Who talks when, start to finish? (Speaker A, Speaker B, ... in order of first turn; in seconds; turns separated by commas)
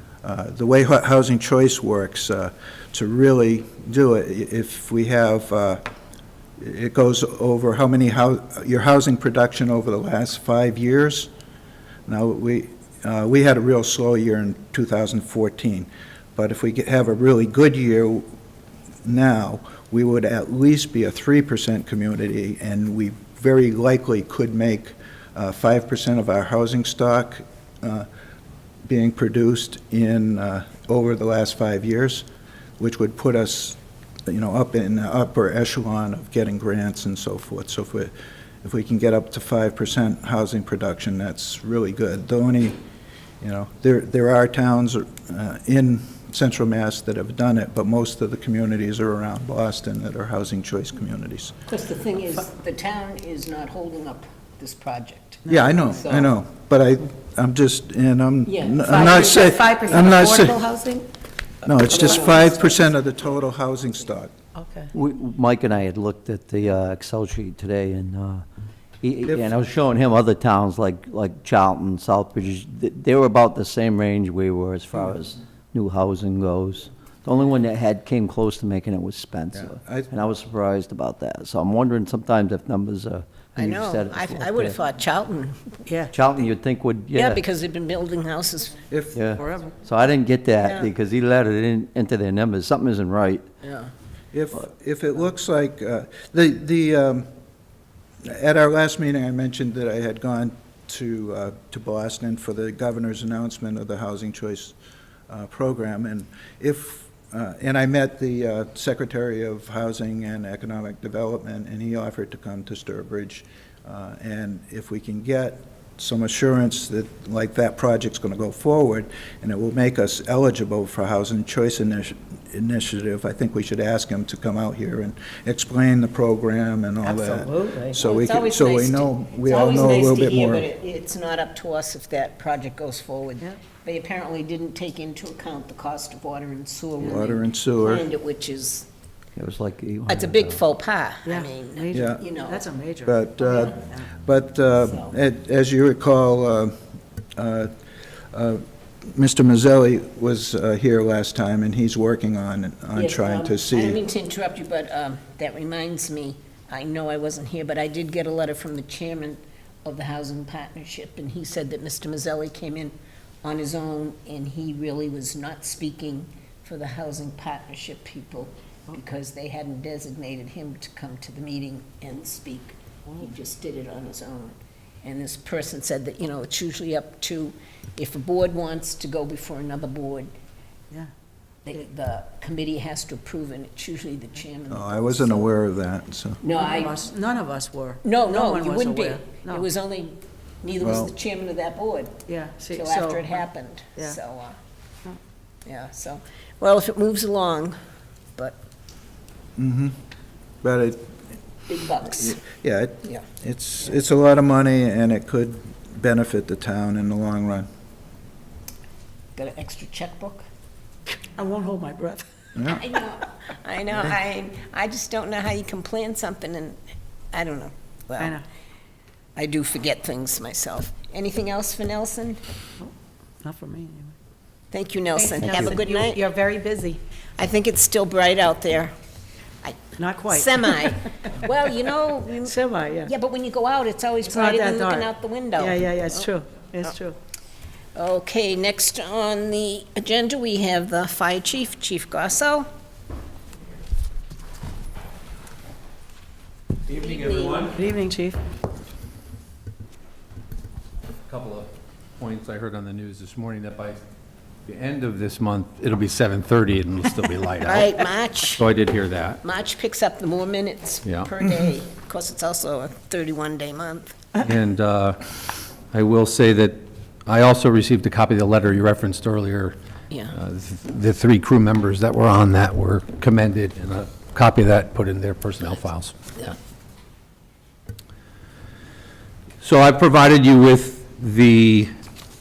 Speaker A: 0.2-5.8, Speaker A: 6.6-11.3, Speaker A: 12.1-18.3, Speaker A: 19.0-28.1, Speaker A: 28.9-32.2, Speaker A: 32.8-42.8, Speaker A: 43.4-51.5, Speaker B: 51.7-56.3, Speaker C: 55.4-56.0, Speaker A: 55.5-60.6, Speaker B: 58.5-61.0, Speaker C: 58.9-61.0, Speaker A: 61.6-64.3, Speaker B: 61.8-62.9, Speaker C: 64.5-64.9, Speaker D: 64.9-68.4, Speaker D: 69.0-84.8, Speaker A: 79.5-80.1, Speaker B: 83.5-85.8, Speaker C: 85.8-86.1, Speaker D: 86.1-87.4, Speaker B: 87.1-88.8, Speaker A: 88.9-89.2, Speaker D: 89.1-93.5, Speaker C: 89.4-89.8, Speaker B: 90.6-90.9, Speaker B: 93.6-93.9, Speaker A: 94.3-97.3, Speaker A: 98.2-104.7, Speaker A: 105.3-130.7, Speaker C: 127.0-128.0, Speaker B: 128.0-138.9, Speaker A: 137.0-138.0, Speaker D: 139.3-140.6, Speaker B: 140.1-142.6, Speaker C: 141.2-144.1, Speaker A: 141.9-142.2, Speaker A: 143.1-146.7, Speaker B: 144.8-145.1, Speaker A: 147.3-147.7, Speaker A: 148.3-154.0, Speaker B: 152.9-180.3, Speaker B: 181.6-185.5, Speaker A: 184.7-186.4, Speaker B: 186.4-187.0, Speaker C: 186.5-189.7, Speaker B: 188.0-192.2, Speaker A: 190.8-191.1, Speaker C: 192.3-193.4, Speaker B: 192.7-194.6, Speaker B: 195.7-197.8, Speaker A: 199.6-200.0, Speaker A: 200.6-201.1, Speaker B: 201.7-202.4, Speaker A: 202.2-207.7, Speaker B: 209.3-210.4, Speaker C: 211.2-212.3, Speaker A: 212.5-212.8, Speaker B: 212.7-216.8, Speaker B: 217.3-218.4, Speaker C: 218.2-218.4, Speaker B: 219.3-222.4, Speaker C: 222.8-224.1, Speaker B: 224.7-226.3, Speaker C: 225.1-227.0, Speaker B: 227.4-228.9, Speaker B: 229.6-236.3, Speaker C: 230.0-231.3, Speaker C: 232.4-233.1, Speaker C: 234.2-237.2, Speaker B: 237.9-242.7, Speaker E: 246.9-247.8, Speaker B: 246.9-247.7, Speaker C: 247.7-248.4, Speaker E: 251.3-254.0, Speaker E: 254.7-258.0, Speaker B: 257.6-258.7, Speaker E: 258.6-259.4, Speaker B: 259.4-264.2, Speaker E: 261.0-261.3, Speaker E: 264.4-265.3, Speaker E: 265.9-269.8, Speaker E: 270.3-276.6, Speaker E: 279.6-281.9